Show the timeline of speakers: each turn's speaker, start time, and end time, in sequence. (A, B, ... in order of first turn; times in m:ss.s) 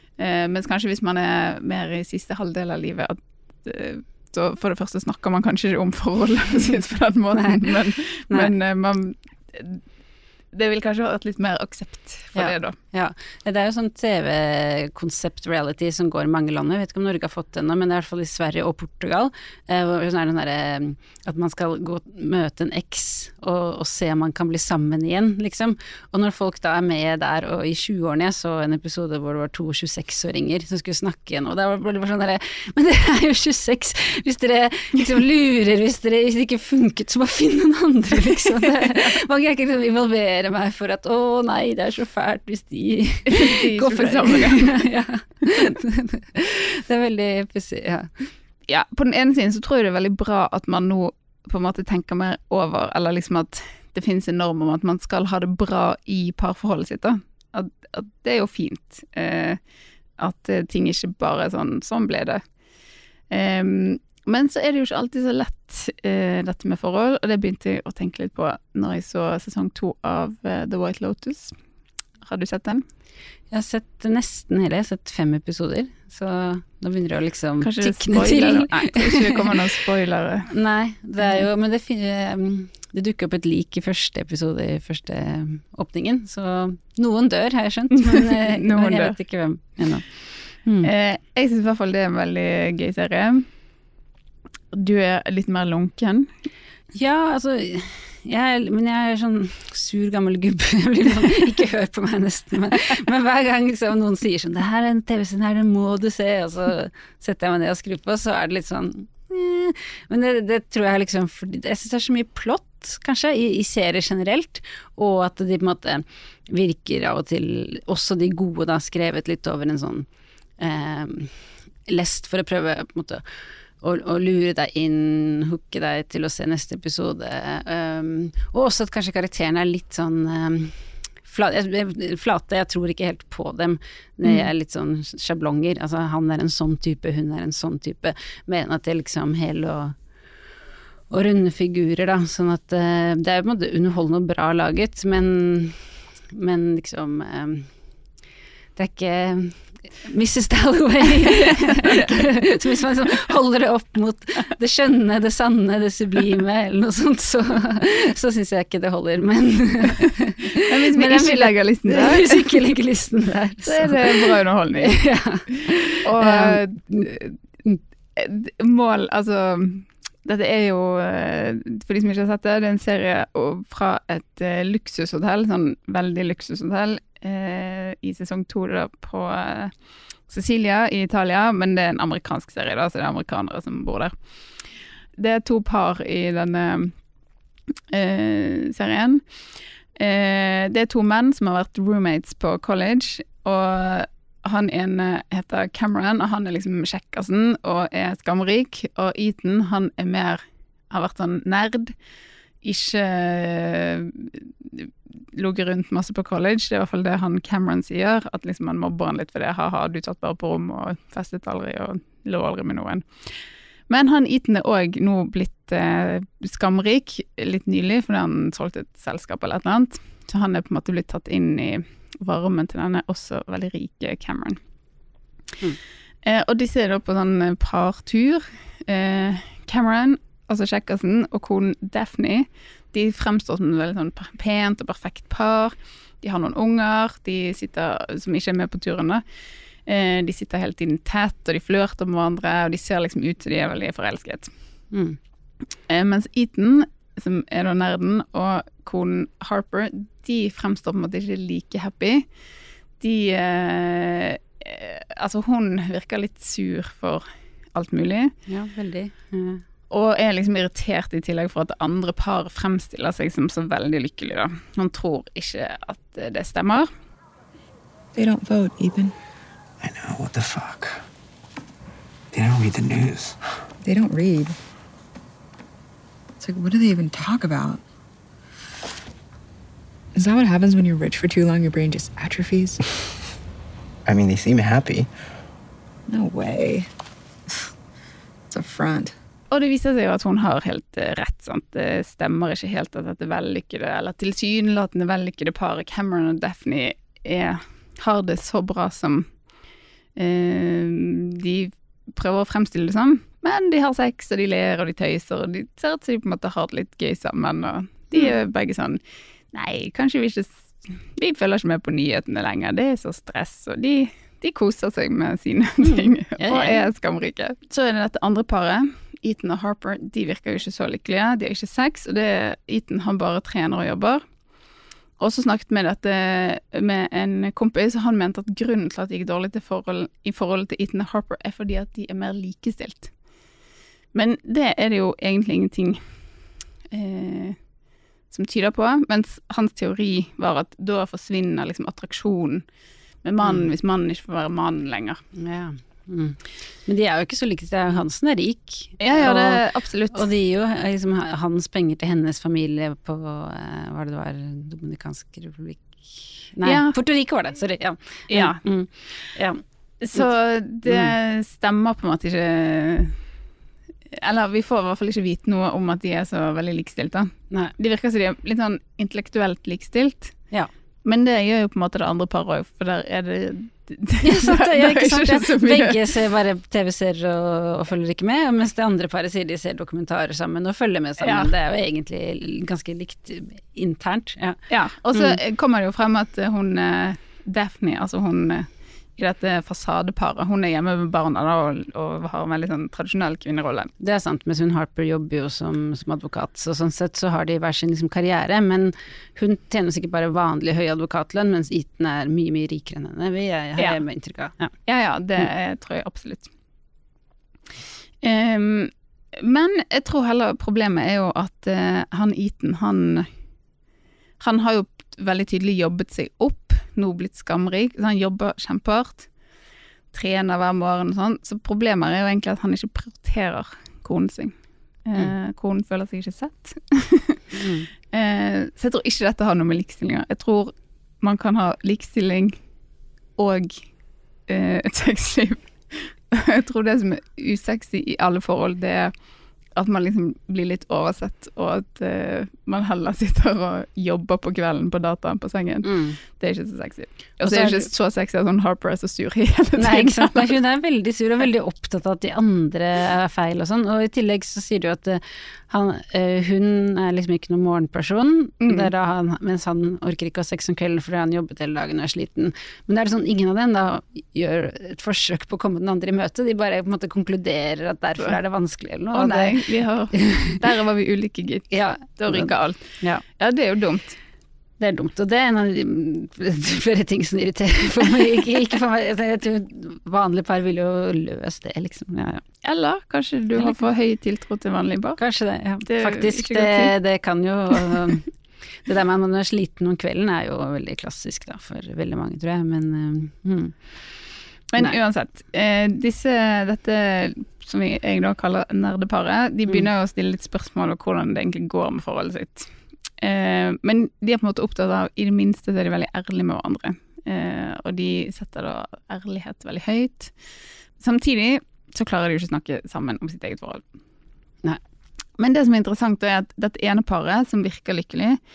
0:00.2-0:09.8 A
0:10.5-0:12.8 A
0:12.3-0:48.2 B
0:43.3-0:44.8 A
0:48.7-0:59.6 A
1:00.2-1:02.4 A
1:03.3-1:11.6 A
1:12.2-1:12.8 A
1:13.5-1:19.6 B
1:17.6-1:20.5 A
1:20.5-1:30.1 B
1:27.9-1:29.2 A
1:30.6-1:30.9 B
1:30.8-1:33.5 A
1:34.7-1:36.3 A
1:36.9-2:00.1 B
2:00.6-2:01.3 B
2:01.9-2:03.2 B
2:03.8-2:20.0 B
2:21.1-2:27.7 B
2:28.8-2:47.0 B
2:40.6-2:42.6 A
2:43.6-2:45.0 A
2:46.0-2:47.4 A
2:48.2-2:59.7 A
3:00.3-3:04.2 A
3:05.2-3:07.0 A
3:07.9-3:09.2 A
3:09.9-3:22.0 A
3:22.6-3:44.6 A
3:46.2-3:59.2 A
3:59.8-4:04.5 A
4:04.9-4:05.2 B
4:05.9-4:12.3 A
4:13.0-4:18.3 A
4:18.5-4:19.6 B
4:19.9-4:26.9 A
4:28.1-4:29.1 C
4:29.8-4:31.0 D
4:32.3-4:33.4 D
4:33.8-4:34.6 C
4:36.4-4:37.8 C
4:40.1-4:42.8 C
4:44.0-4:45.1 D
4:46.1-4:46.9 C
4:48.5-4:49.1 C
4:49.5-4:59.3 A
5:00.2-5:09.0 A
5:09.5-5:24.2 A
5:15.8-5:16.8 B
5:25.2-5:33.1 A
5:34.1-5:36.0 A
5:36.9-5:37.6 A
5:38.3-5:42.6 A
5:43.2-5:45.2 A
5:43.4-5:43.7 B
5:45.3-5:59.6 B
5:49.0-5:50.2 A
5:56.6-5:56.9 A
5:58.3-5:58.6 A
6:00.0-6:03.2 A
6:04.1-6:10.4 A
6:11.0-6:16.1 A
6:14.2-6:24.6 B
6:21.2-6:21.5 A
6:24.7-6:33.9 A
6:34.0-6:44.7 B
6:43.8-6:44.0 A
6:44.8-6:46.5 A
6:48.2-6:53.3 A
6:54.4-6:59.3 A
7:00.1-7:12.6 A
7:07.5-7:07.9 B
7:13.4-7:13.8 A
7:14.5-7:19.1 A
7:19.7-7:30.6 A
7:25.8-7:26.2 B
7:27.4-7:27.8 B
7:29.8-7:49.6 B
7:38.6-7:38.9 A
7:49.1-7:54.2 A
7:50.1-7:50.6 B
7:51.7-7:52.5 B
7:54.8-8:02.4 B
8:02.6-8:05.2 A
8:05.2-8:08.3 B
8:05.8-8:06.9 A
8:08.8-8:13.8 B
8:14.7-8:30.3 A
8:31.0-8:33.8 A
8:35.4-8:38.4 A